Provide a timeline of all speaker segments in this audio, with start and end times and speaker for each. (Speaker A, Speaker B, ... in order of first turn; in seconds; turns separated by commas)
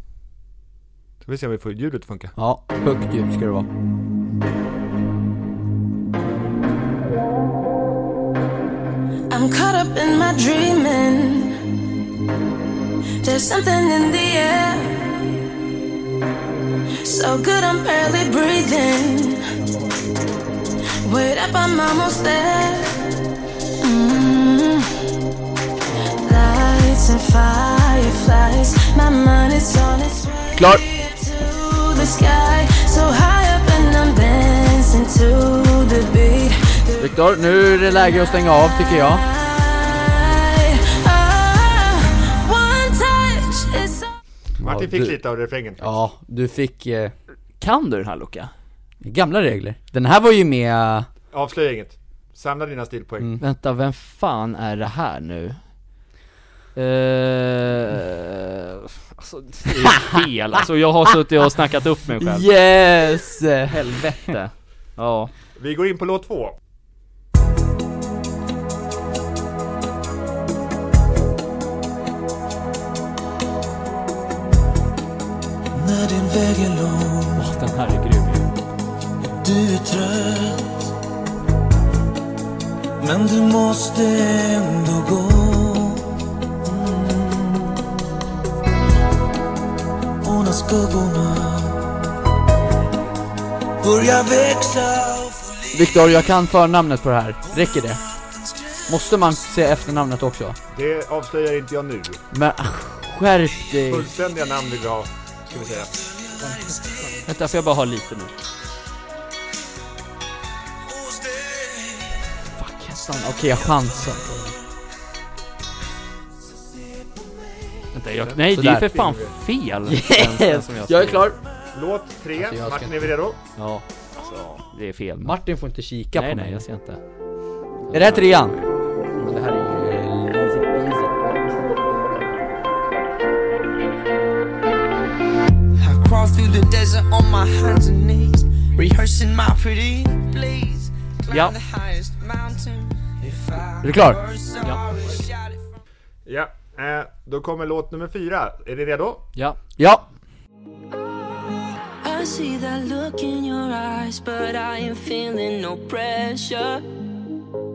Speaker A: 1.2-2.3, Speaker B: 2.4-3.7, Speaker C: 9.3-11.6, Speaker C: 13.2-15.3, Speaker C: 17.0-19.4, Speaker C: 21.0-23.1, Speaker C: 23.8-25.0, Speaker C: 26.2-37.1, Speaker B: 30.6-30.8, Speaker B: 37.0-39.3, Speaker C: 39.3-44.1, Speaker B: 44.6-45.2, Speaker A: 44.6-45.9, Speaker B: 45.8-47.1, Speaker D: 47.6-48.5, Speaker B: 49.0-51.1, Speaker A: 51.3-53.3, Speaker D: 53.4-55.6, Speaker D: 56.8-62.5, Speaker B: 62.2-64.3, Speaker D: 63.7-65.3, Speaker A: 65.6-66.6, Speaker E: 75.7-77.5, Speaker D: 77.4-78.5, Speaker E: 79.4-80.8, Speaker E: 83.0-87.9, Speaker E: 90.2-92.0, Speaker E: 93.8-95.7, Speaker B: 95.7-98.0, Speaker B: 98.9-100.6, Speaker A: 100.7-102.2, Speaker B: 102.3-104.1, Speaker A: 103.9-106.0, Speaker E: 106.4-107.1, Speaker D: 107.2-108.3, Speaker E: 111.1-112.2, Speaker B: 112.6-114.5, Speaker D: 117.9-121.3, Speaker B: 118.5-118.9, Speaker A: 118.9-119.3, Speaker B: 119.9-121.4, Speaker A: 121.7-123.4, Speaker B: 122.4-123.1, Speaker D: 123.6-125.3, Speaker B: 125.2-126.6, Speaker D: 126.2-127.0, Speaker D: 127.9-128.6, Speaker B: 127.9-128.6, Speaker B: 129.2-131.3, Speaker F: 135.8-145.6, Speaker D: 141.3-141.6, Speaker B: 143.8-144.2, Speaker A: 146.3-149.2, Speaker B: 149.8-150.1, Speaker C: 152.0-156.8